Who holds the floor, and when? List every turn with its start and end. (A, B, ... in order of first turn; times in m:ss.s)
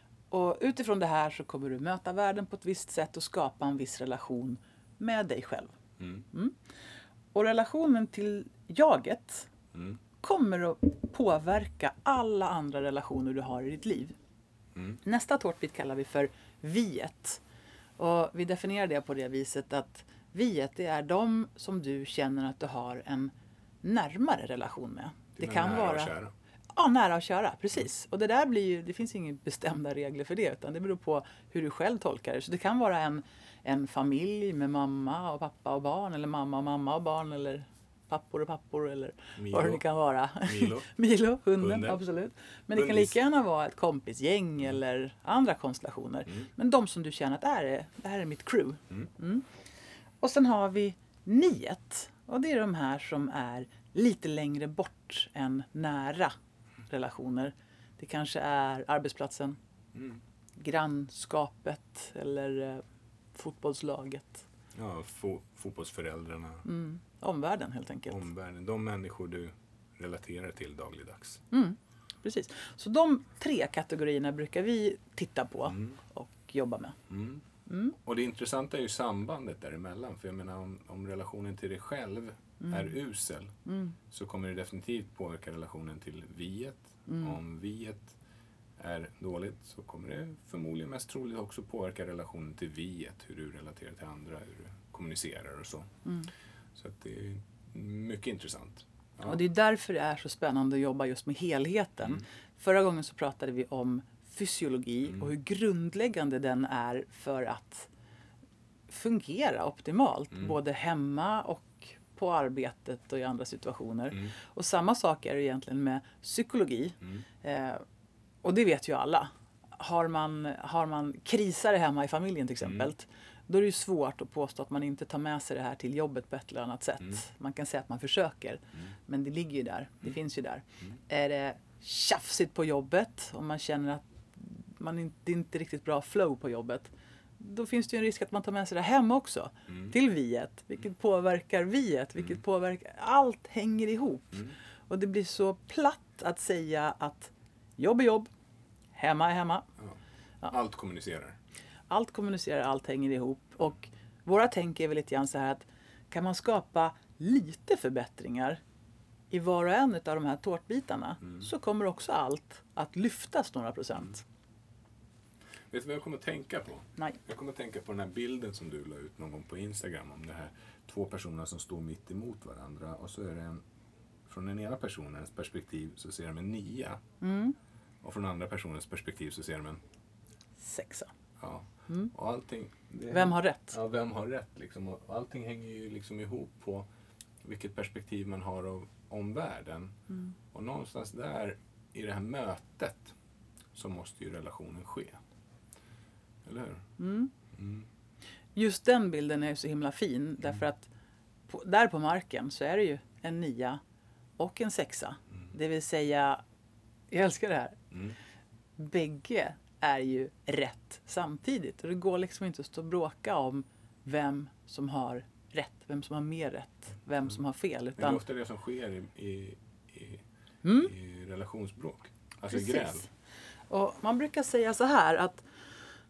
0:00.3-0:05.7 A
0:06.0-0:06.2 B
0:07.3-0:09.5 A
0:09.7-0:10.0 B
0:10.2-0:14.2 A
0:14.7-0:15.0 B
0:15.0-0:17.4 A
0:18.0-0:26.1 A
0:25.4-0:26.3 B
0:26.8-0:49.4 A
0:39.4-0:39.8 B
0:40.4-0:40.9 B
0:41.6-0:42.0 B
0:42.7-0:43.1 B
0:50.2-0:56.3 A
0:56.9-0:59.6 A
0:59.9-1:00.2 B
1:00.6-1:02.8 A
1:03.3-1:04.4 A
1:04.7-1:06.6 B
1:06.6-1:08.2 A
1:08.1-1:11.4 B
1:11.5-1:17.0 A
1:15.7-1:16.0 B
1:17.1-1:17.4 B
1:17.7-1:17.9 A
1:18.0-1:23.5 B
1:22.6-1:22.9 A
1:23.6-1:24.0 A
1:24.1-1:28.1 B
1:27.1-1:27.4 A
1:28.8-1:35.9 B
1:36.0-1:36.3 A
1:36.8-1:39.4 B
1:39.2-1:47.9 A
1:48.9-1:57.8 A
1:58.4-2:28.3 A
2:02.6-2:02.9 B
2:19.7-2:19.9 B
2:28.9-2:29.6 A
2:30.5-2:31.4 B
2:31.9-2:38.6 A
2:39.3-2:44.2 A
2:45.7-2:53.6 B
2:54.3-2:57.0 B
2:57.2-2:57.6 A
2:58.0-2:59.8 B
3:00.6-3:01.1 A
3:01.4-3:06.9 B
3:03.1-3:03.8 A
3:07.4-3:09.9 B
3:10.5-3:13.1 B
3:13.7-3:15.2 B
3:16.4-3:16.8 B
3:17.0-3:17.3 A
3:17.5-3:17.8 B
3:18.5-3:20.9 A
3:21.5-3:23.8 A
3:24.4-3:26.4 A
3:27.1-3:27.8 A
3:28.8-3:38.2 A
3:38.0-3:40.2 B
3:40.6-3:40.9 A
3:40.8-3:43.0 B
3:42.5-3:43.1 A
3:43.7-3:45.4 A